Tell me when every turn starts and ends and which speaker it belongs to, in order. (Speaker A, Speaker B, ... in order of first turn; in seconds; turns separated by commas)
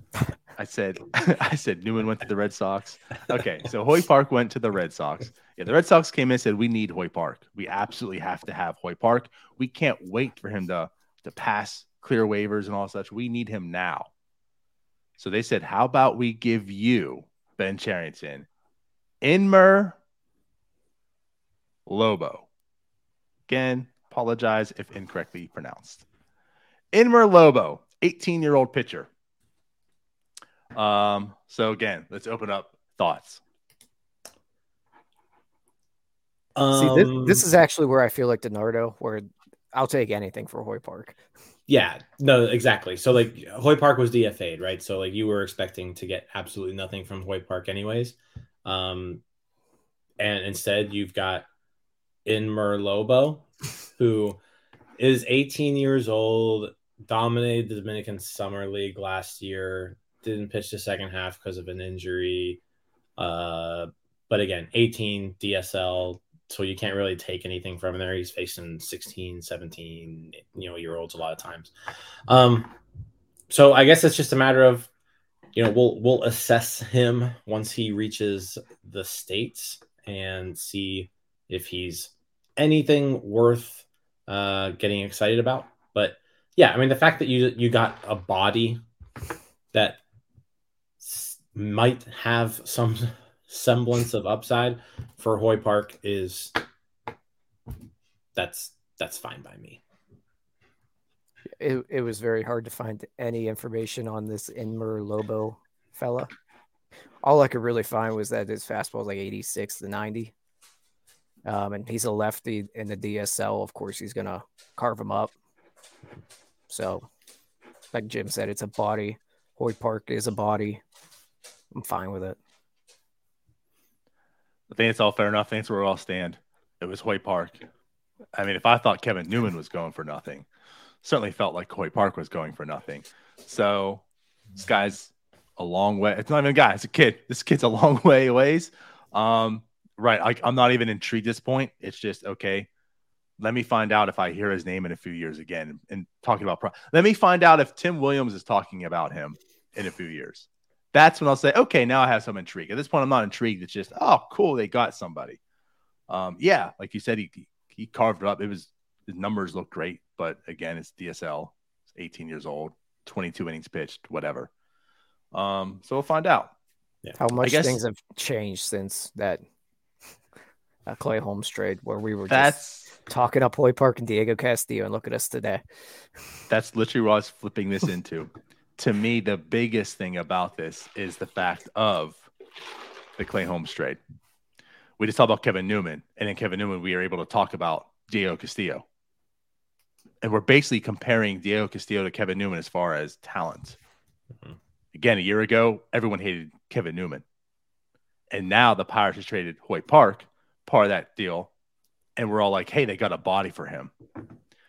Speaker A: 0.6-14.1, Speaker A: 15.2-18.5, Speaker A: 19.2-20.0, Speaker A: 21.9-22.5, Speaker A: 23.5-26.0, Speaker A: 26.9-29.1, Speaker A: 30.7-33.4, Speaker B: 36.5-37.4, Speaker C: 36.7-41.2, Speaker B: 41.7-49.2, Speaker B: 50.2-51.5, Speaker B: 52.2-54.4, Speaker B: 55.0-62.6, Speaker B: 63.2-71.7, Speaker B: 72.3-72.7, Speaker B: 73.5-74.9, Speaker B: 75.5-88.8, Speaker B: 89.7-90.0, Speaker B: 91.0-96.6, Speaker B: 98.3-99.8, Speaker C: 101.6-106.3, Speaker C: 107.2-110.3, Speaker C: 111.4-115.3, Speaker C: 116.7-117.1, Speaker C: 117.9-120.8, Speaker C: 121.7-122.4, Speaker A: 124.7-127.6, Speaker A: 128.3-130.4, Speaker A: 131.0-134.0, Speaker A: 134.6-142.7, Speaker A: 143.4-155.4, Speaker A: 156.1-164.5, Speaker A: 165.3-166.5, Speaker C: 167.2-169.4, Speaker A: 167.4-167.8, Speaker C: 170.8-175.6, Speaker A: 172.3-172.9, Speaker A: 176.5-182.3, Speaker A: 183.2-184.0, Speaker A: 185.0-188.8, Speaker A: 190.2-193.8, Speaker A: 194.9-197.2, Speaker A: 198.3-201.5, Speaker A: 202.2-203.9